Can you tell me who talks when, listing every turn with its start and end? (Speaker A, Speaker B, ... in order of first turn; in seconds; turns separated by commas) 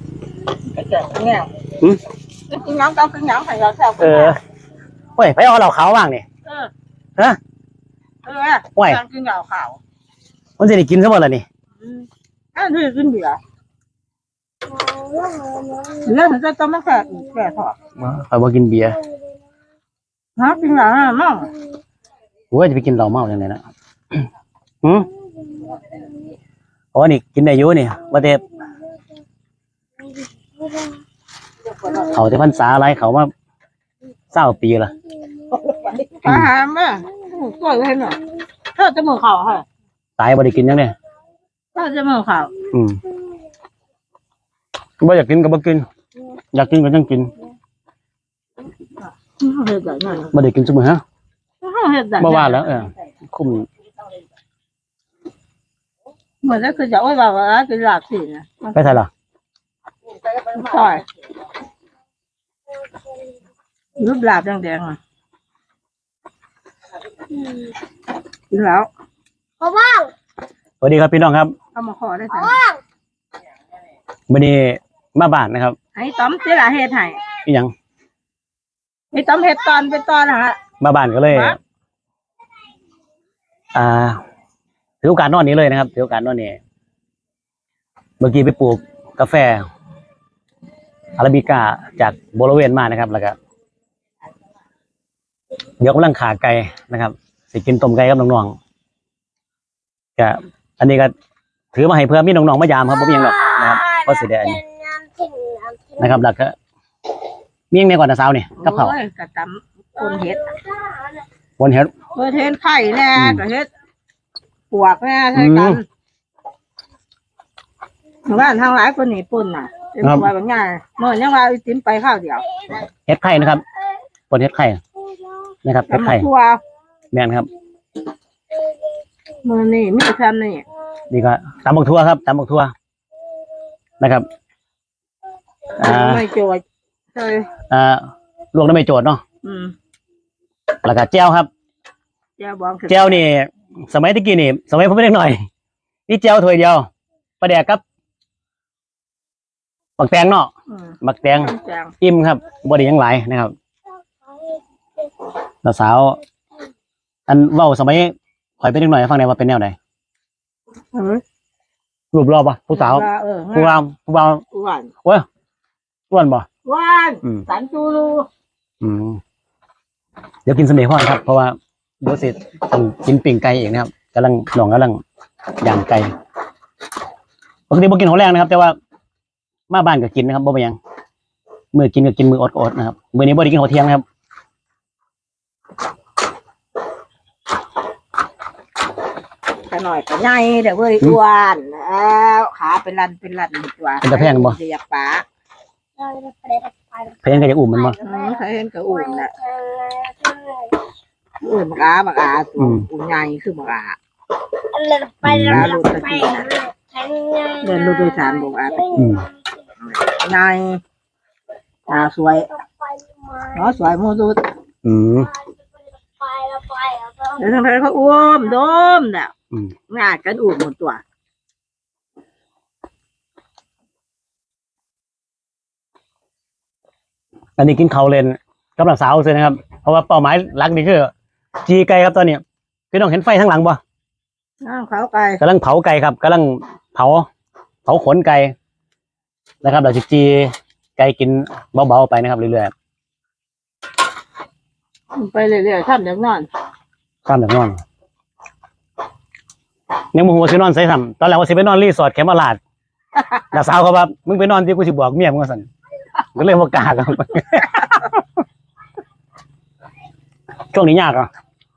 Speaker A: 0.6-1.6, Speaker A: 2.5-4.3, Speaker B: 4.0-4.4, Speaker B: 5.2-6.2, Speaker A: 6.4-6.7, Speaker A: 8.2-9.8, Speaker B: 10.6-11.4, Speaker A: 11.8-13.4, Speaker C: 14.7-16.0, Speaker A: 16.0-17.8, Speaker B: 18.0-19.0, Speaker A: 20.4-21.5, Speaker B: 22.5-23.6, Speaker B: 24.8-25.1, Speaker B: 26.9-28.4, Speaker B: 32.0-33.3, Speaker B: 34.3-34.9, Speaker A: 35.5-38.2, Speaker A: 38.7-39.6, Speaker B: 40.2-40.9, Speaker A: 41.7-42.5, Speaker B: 42.7-43.0, Speaker B: 45.0-45.9, Speaker B: 46.5-47.3, Speaker A: 49.3-50.3, Speaker B: 50.3-51.0, Speaker A: 51.6-52.9, Speaker B: 52.2-53.7, Speaker A: 56.4-59.0, Speaker B: 58.7-59.1, Speaker A: 60.4-61.0, Speaker A: 64.0-65.0, Speaker A: 68.5-68.9, Speaker C: 69.6-70.1, Speaker B: 70.8-71.5, Speaker A: 71.7-72.6, Speaker B: 74.3-75.8, Speaker A: 75.9-77.2, Speaker B: 77.5-77.7, Speaker A: 79.1-80.6, Speaker B: 80.8-81.6, Speaker A: 81.3-81.5, Speaker B: 83.7-84.2, Speaker B: 85.0-86.6, Speaker B: 88.2-89.7, Speaker B: 91.2-93.3, Speaker B: 95.8-98.5, Speaker B: 100.2-101.1, Speaker B: 101.7-104.6, Speaker C: 104.6-106.0, Speaker B: 106.0-106.5, Speaker B: 107.7-108.9, Speaker A: 108.6-110.6, Speaker B: 111.6-111.9, Speaker A: 112.1-113.7, Speaker B: 113.2-113.4, Speaker A: 114.7-115.8, Speaker B: 115.3-115.8, Speaker A: 118.3-122.5, Speaker B: 120.0-120.3, Speaker B: 123.1-123.6, Speaker B: 124.3-124.8, Speaker B: 125.6-126.3, Speaker A: 125.9-126.6, Speaker B: 127.1-127.5, Speaker A: 129.4-130.6, Speaker B: 131.1-132.7, Speaker B: 134.0-134.3, Speaker A: 135.8-136.6, Speaker B: 135.8-136.2, Speaker A: 137.1-137.5, Speaker B: 137.7-139.2, Speaker A: 139.4-139.7, Speaker B: 140.8-141.5, Speaker A: 142.4-143.2, Speaker B: 142.9-145.4, Speaker B: 146.1-146.9, Speaker B: 147.4-147.8, Speaker B: 150.0-150.5, Speaker A: 150.7-151.9, Speaker B: 151.0-151.5, Speaker B: 152.0-153.5, Speaker B: 155.6-156.2, Speaker B: 157.3-159.8, Speaker A: 160.9-161.2, Speaker B: 162.1-164.4, Speaker A: 162.7-163.8, Speaker A: 164.5-164.9, Speaker B: 166.1-166.4, Speaker A: 166.6-168.3, Speaker B: 168.8-169.2, Speaker B: 170.4-175.0, Speaker B: 175.6-176.1, Speaker B: 177.7-178.7, Speaker B: 179.7-180.8, Speaker B: 181.7-184.0, Speaker A: 189.7-195.2, Speaker B: 194.0-194.6, Speaker C: 196.0-197.2, Speaker B: 197.2-198.0, Speaker A: 198.0-199.3, Speaker C: 199.4-200.7, Speaker A: 201.4-204.0, Speaker B: 202.6-202.8, Speaker C: 204.7-205.3, Speaker A: 205.2-206.6, Speaker B: 205.2-205.7, Speaker C: 206.4-207.7, Speaker A: 207.6-209.2, Speaker B: 208.9-209.3, Speaker A: 209.9-210.8, Speaker A: 211.9-212.5, Speaker A: 213.5-214.4, Speaker B: 214.8-215.3, Speaker C: 216.2-217.4, Speaker A: 217.3-219.3, Speaker A: 219.9-221.0, Speaker B: 227.6-233.8, Speaker A: 234.6-235.4, Speaker B: 235.4-237.3, Speaker B: 237.8-238.5, Speaker B: 239.6-242.7, Speaker A: 245.1-246.5, Speaker B: 247.2-247.8, Speaker B: 250.1-252.6, Speaker B: 253.5-255.7, Speaker B: 256.3-258.0, Speaker B: 260.7-261.3